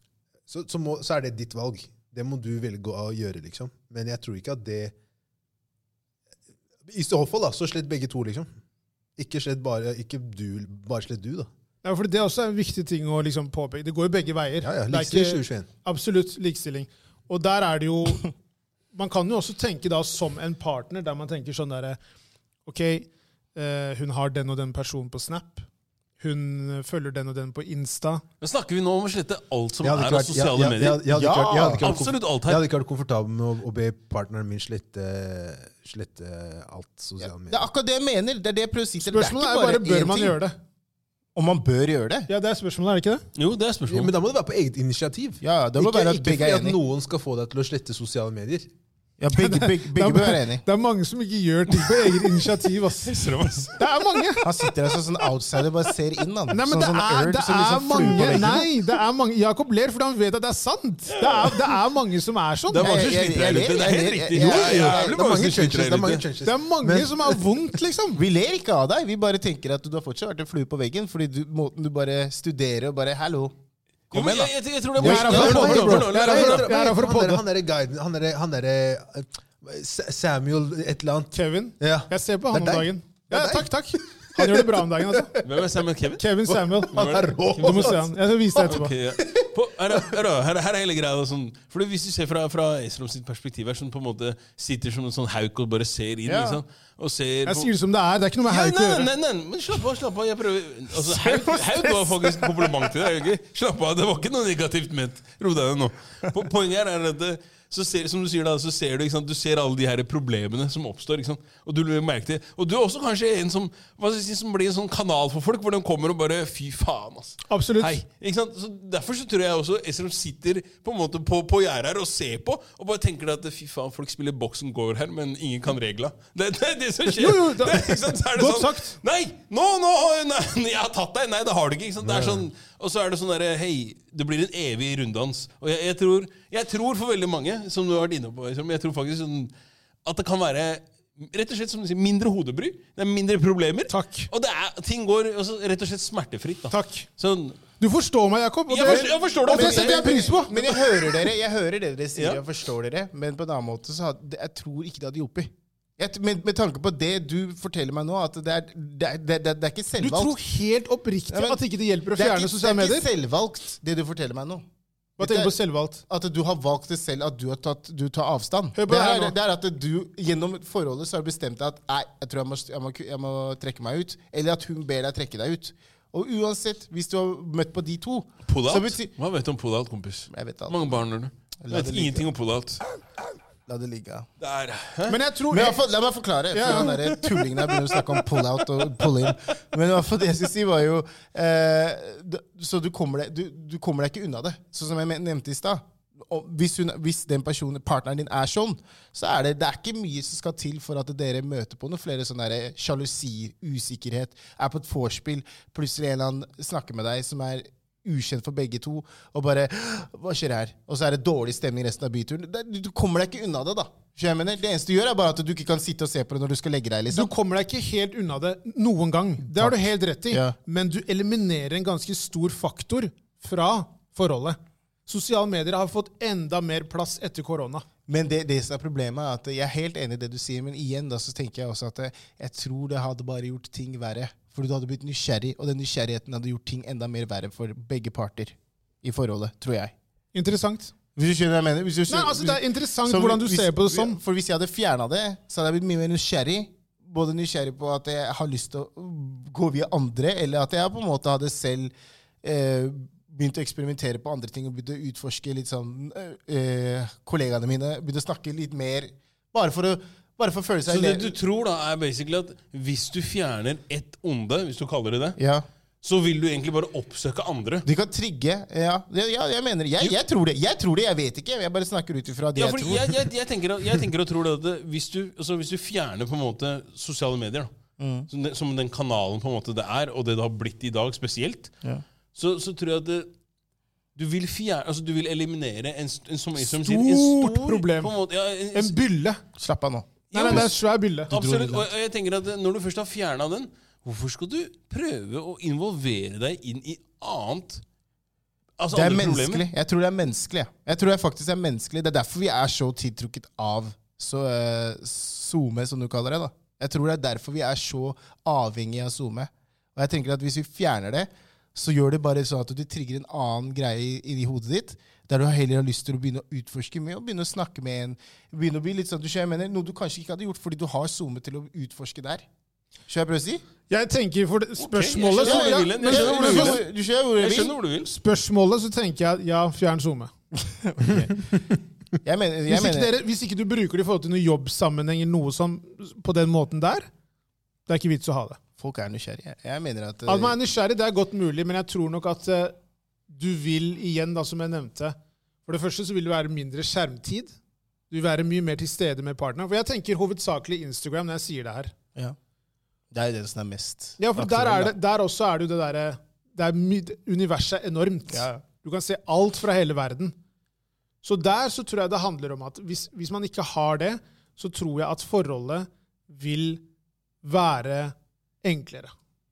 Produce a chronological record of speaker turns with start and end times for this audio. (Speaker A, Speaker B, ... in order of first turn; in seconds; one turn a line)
Speaker A: 0.5-4.9
Speaker A: 6.8-8.5
Speaker A: 9.2-11.5
Speaker B: 11.8-18.3
Speaker A: 14.6-15.7
Speaker B: 18.9-22.0
Speaker B: 22.6-25.7
Speaker B: 26.2-28.2
Speaker C: 28.4-31.1
Speaker A: 29.8-37.7
Speaker D: 31.1-31.9
Speaker C: 31.8-32.6
Speaker D: 37.2-40.4
Speaker B: 39.0-40.5
Speaker D: 41.3-42.3
Speaker B: 42.3-43.2
Speaker C: 43.4-44.1
Speaker A: 43.9-48.7
Speaker D: 45.4-46.8
Speaker D: 49.2-50.6
Speaker B: 49.3-54.5
Speaker C: 51.8-52.3
Speaker C: 53.0-53.8
Speaker D: 54.4-58.7
Speaker B: 56.5-62.9
Speaker C: 62.7-66.2
Speaker D: 62.8-65.2
Speaker A: 64.3-67.4
Speaker B: 66.4-68.2
Speaker D: 68.1-73.5
Speaker D: 74.1-74.5
Speaker C: 74.1-76.7
Speaker A: 75.0-85.6
Speaker B: 75.0-77.4
Speaker B: 81.3-85.3
Speaker C: 85.4-86.2
Speaker B: 86.2-88.9
Speaker A: 86.5-90.1
Speaker C: 86.9-88.0
Speaker C: 88.6-97.7
Speaker D: 96.2-96.6
Speaker B: 97.5-99.1
Speaker C: 98.5-139.5
Speaker D: 100.9-103.0
Speaker B: 117.5-118.0
Speaker B: 127.2-129.0
Speaker A: 132.0-132.4
Speaker C: 140.0-147.6
Speaker B: 143.9-144.3
Speaker B: 146.7-147.1
Speaker B: 147.8-150.5
Speaker C: 148.7-151.3
Speaker D: 148.8-160.3
Speaker C: 152.1-152.4
Speaker B: 160.0-163.1
Speaker D: 161.3-161.6
Speaker D: 162.1-164.6
Speaker B: 165.2-166.0
Speaker D: 165.2-179.1
Speaker B: 168.8-169.3
Speaker C: 178.4-182.8
Speaker D: 180.3-181.0
Speaker D: 181.7-182.3
Speaker D: 183.7-184.3
Speaker C: 184.4-185.2
Speaker B: 185.1-185.8
Speaker D: 185.5-217.3
Speaker B: 186.5-187.0
Speaker C: 186.6-189.1
Speaker B: 217.1-227.8
Speaker D: 220.3-220.5
Speaker D: 228.1-239.9
Speaker B: 240.3-240.9
Speaker D: 241.2-251.9
Speaker B: 242.1-244.2
Speaker D: 252.4-261.3
Speaker C: 260.9-265.4
Speaker D: 265.4-265.6
Speaker C: 266.0-267.8
Speaker D: 267.8-273.1
Speaker C: 272.5-277.7
Speaker D: 278.0-278.3
Speaker C: 278.3-281.7
Speaker C: 282.3-283.3
Speaker C: 284.1-288.9
Speaker B: 286.6-288.1
Speaker B: 288.7-289.4
Speaker D: 289.6-290.7
Speaker C: 290.3-290.8
Speaker B: 290.3-291.8
Speaker C: 291.3-297.8
Speaker C: 298.8-299.6
Speaker D: 298.9-322.4
Speaker D: 323.1-323.6
Speaker B: 323.9-326.8
Speaker C: 324.8-328.1
Speaker D: 325.3-327.7
Speaker B: 328.0-330.3
Speaker D: 330.6-331.5
Speaker D: 332.2-333.1
Speaker B: 332.7-337.1
Speaker B: 337.9-338.6
Speaker D: 338.8-340.6
Speaker B: 340.3-342.8
Speaker B: 343.3-347.5
Speaker B: 348.1-351.9
Speaker D: 353.1-354.9
Speaker B: 354.2-360.3
Speaker D: 358.3-358.6
Speaker B: 361.2-366.8
Speaker B: 367.4-369.1